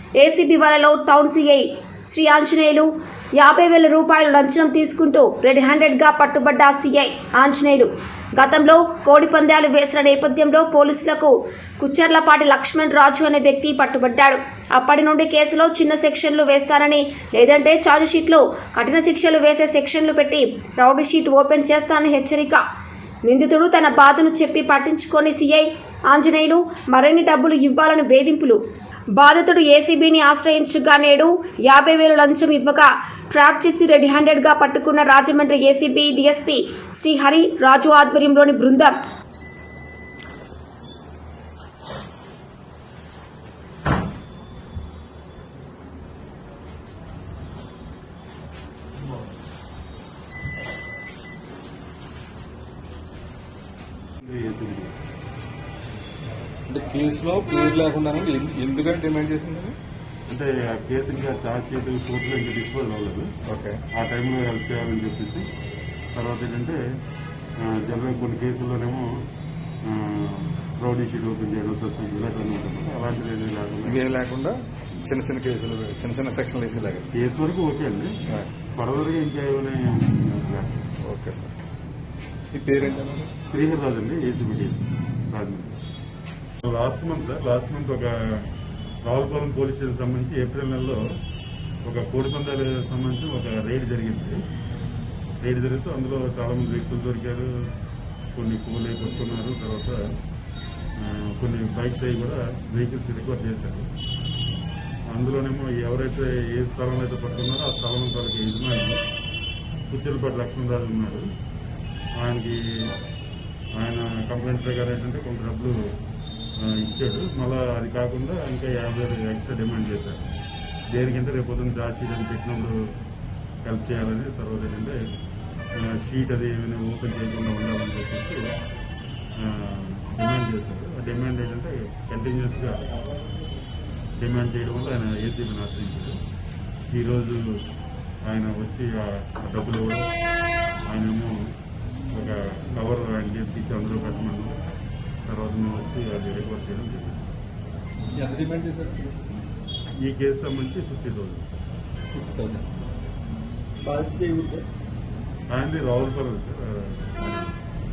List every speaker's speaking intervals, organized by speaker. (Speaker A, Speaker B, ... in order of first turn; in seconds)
Speaker A: 0.2-22.6, 23.2-28.6, 29.2-39.0
Speaker B: 54.2-54.9, 60.3-63.3, 63.9-65.5, 66.2-66.8, 67.6-69.1, 69.8-74.0, 77.1-78.2, 78.8-80.7, 83.5-85.7, 86.6-88.5, 89.0-91.0, 91.9-94.4, 95.4-97.5, 98.3-100.0, 101.0-103.9, 105.1-109.0, 109.9-111.3, 112.2-112.9, 113.8-115.8, 116.6-120.2, 120.9-122.8, 123.6-125.0, 125.8-128.4, 129.4-132.8, 134.2-136.2, 136.9-137.4, 138.3-140.1, 140.9-141.4, 142.1-144.6, 145.3-147.2, 150.0-151.4, 155.5-157.5
Speaker C: 56.7-59.8, 63.5-63.8, 73.8-77.1, 81.0-81.5, 82.5-83.3, 148.2-149.2, 152.1-152.6, 153.8-154.7